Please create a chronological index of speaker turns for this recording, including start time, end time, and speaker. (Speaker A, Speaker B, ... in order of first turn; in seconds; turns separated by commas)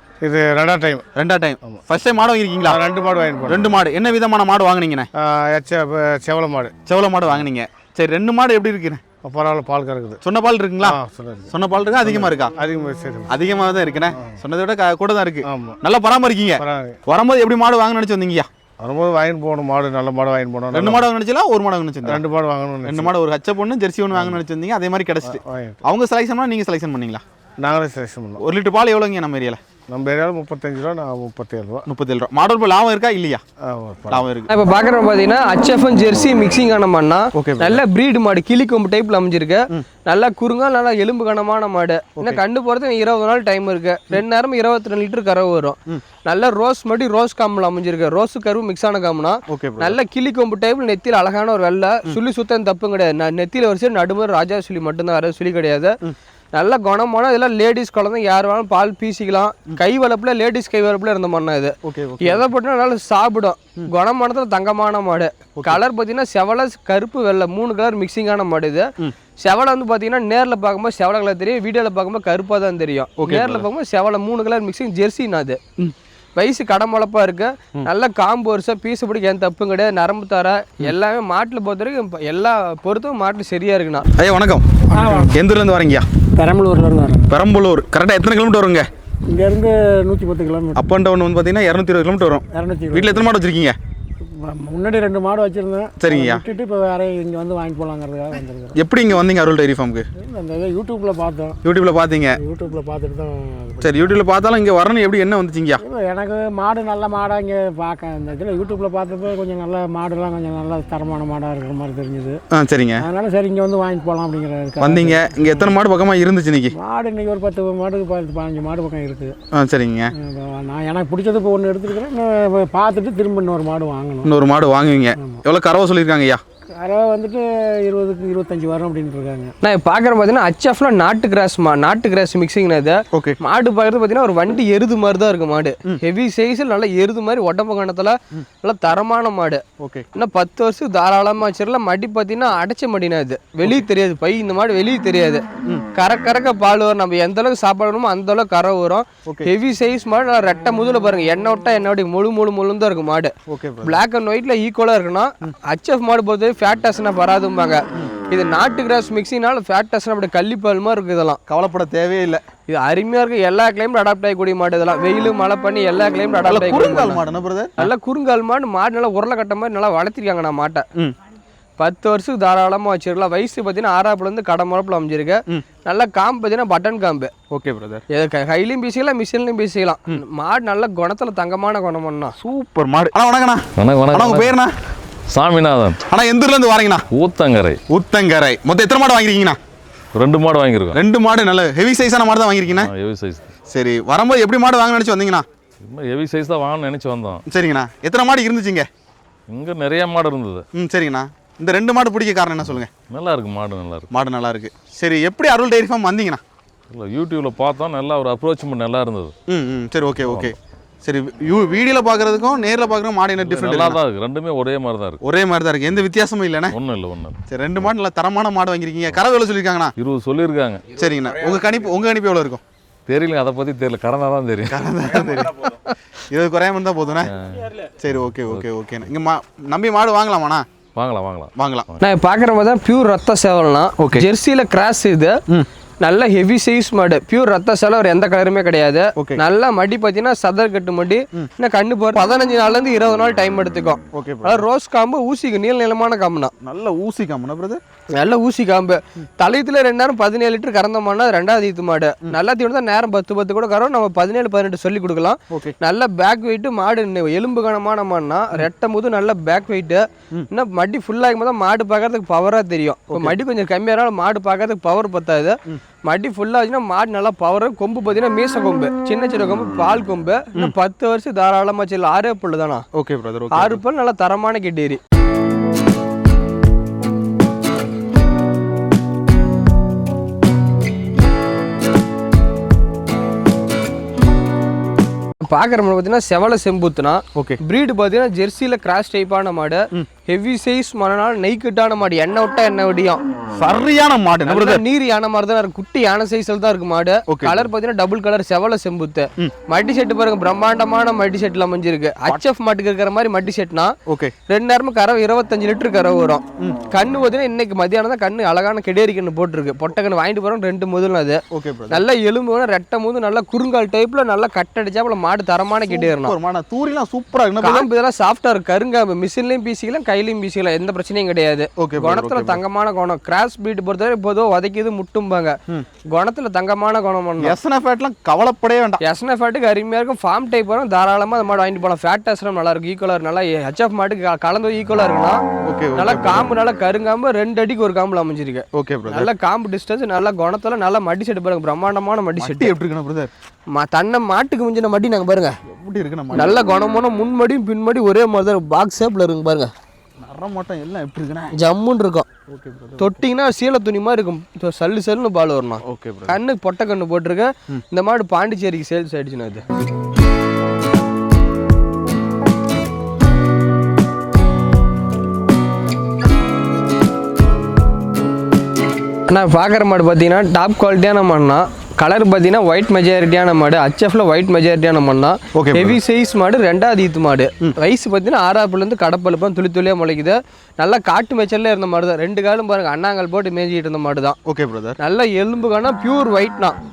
Speaker A: 0.2-1.1, Speaker B: 1.1-2.8, Speaker A: 2.7-3.8, Speaker B: 3.5-5.1, Speaker A: 5.2-6.7, Speaker B: 6.8-9.0, Speaker A: 9.2-10.2, Speaker B: 10.2-11.0, Speaker A: 10.8-13.4, Speaker B: 11.5-12.5, Speaker B: 13.3-18.5, Speaker A: 15.4-15.8, Speaker A: 16.6-17.0, Speaker A: 18.8-21.1, Speaker B: 20.7-22.2, Speaker A: 22.0-23.1, Speaker B: 22.8-27.2, Speaker A: 24.1-24.4, Speaker A: 25.2-25.8, Speaker A: 27.6-28.4, Speaker B: 28.4-29.6, Speaker A: 29.9-31.9, Speaker B: 31.9-33.4, Speaker A: 33.6-34.3, Speaker B: 34.1-34.5, Speaker C: 34.5-55.9, Speaker B: 37.3-37.8, Speaker B: 49.5-50.0, Speaker C: 56.5-75.6, Speaker B: 61.8-62.4, Speaker B: 73.2-73.7, Speaker C: 76.3-84.0, Speaker B: 84.2-86.0, Speaker D: 84.9-85.2, Speaker D: 86.4-87.3, Speaker B: 87.3-88.9, Speaker D: 89.3-90.8, Speaker B: 90.8-93.8, Speaker D: 92.5-93.1, Speaker D: 94.5-98.7, Speaker B: 96.0-96.4, Speaker B: 98.8-100.0, Speaker D: 100.2-101.5, Speaker B: 101.6-102.3, Speaker D: 102.4-103.8, Speaker B: 103.8-105.8, Speaker D: 105.8-112.4, Speaker B: 112.5-113.0, Speaker D: 113.0-115.1, Speaker B: 114.8-116.7, Speaker D: 116.8-119.3, Speaker B: 119.5-120.1, Speaker D: 120.2-124.3, Speaker B: 124.2-126.4, Speaker D: 126.8-129.5, Speaker C: 129.6-139.6, Speaker B: 139.8-140.0, Speaker C: 140.1-161.4, Speaker B: 149.2-149.5, Speaker B: 153.5-154.0, Speaker B: 161.5-162.4, Speaker C: 162.7-167.2, Speaker B: 166.4-167.9, Speaker C: 167.8-170.8, Speaker C: 171.8-177.3, Speaker B: 177.5-178.0, Speaker C: 178.1-182.3, Speaker B: 182.4-184.7, Speaker E: 183.8-184.6, Speaker E: 185.3-186.0, Speaker B: 186.1-187.0, Speaker E: 187.1-187.8, Speaker B: 187.9-189.6, Speaker E: 190.1-191.0, Speaker B: 190.9-192.9, Speaker E: 192.7-193.5, Speaker B: 193.7-195.4, Speaker E: 195.8-197.4, Speaker B: 197.5-198.9, Speaker E: 199.5-200.6, Speaker B: 200.7-202.9, Speaker E: 203.1-204.1, Speaker B: 204.1-206.4, Speaker E: 206.9-209.3, Speaker B: 209.5-214.0, Speaker E: 210.2-210.5, Speaker E: 213.4-215.2, Speaker B: 215.2-216.8, Speaker E: 216.7-217.9, Speaker B: 217.5-219.9, Speaker E: 220.0-220.8, Speaker B: 220.9-222.6, Speaker E: 223.1-224.8, Speaker B: 224.7-225.7, Speaker B: 226.3-227.3, Speaker E: 227.2-227.7, Speaker B: 228.0-230.7, Speaker E: 230.9-232.0, Speaker B: 231.6-231.9, Speaker C: 232.0-235.3, Speaker B: 234.0-234.2, Speaker C: 236.0-246.5, Speaker B: 244.1-244.6, Speaker B: 246.6-247.8, Speaker C: 248.2-272.8, Speaker B: 263.1-263.4, Speaker B: 272.9-273.8, Speaker C: 273.5-275.0, Speaker C: 285.5-293.2, Speaker B: 293.6-294.8, Speaker C: 294.5-303.9, Speaker B: 297.3-297.6, Speaker B: 304.1-304.3, Speaker C: 304.5-316.4, Speaker B: 311.5-312.0, Speaker B: 315.9-317.9, Speaker C: 317.6-325.5, Speaker B: 321.8-322.6, Speaker C: 326.1-327.6, Speaker B: 327.4-329.0, Speaker C: 329.0-335.4, Speaker B: 335.6-336.4, Speaker C: 336.0-342.7, Speaker B: 338.8-339.3, Speaker B: 342.4-343.3, Speaker C: 343.7-345.5, Speaker B: 345.7-346.6, Speaker C: 346.3-349.7, Speaker B: 350.2-351.5, Speaker C: 351.6-352.3, Speaker B: 352.5-353.1, Speaker C: 353.0-359.6, Speaker B: 355.8-356.4, Speaker C: 369.3-384.4, Speaker B: 375.5-376.0, Speaker B: 384.4-385.0, Speaker C: 385.0-386.8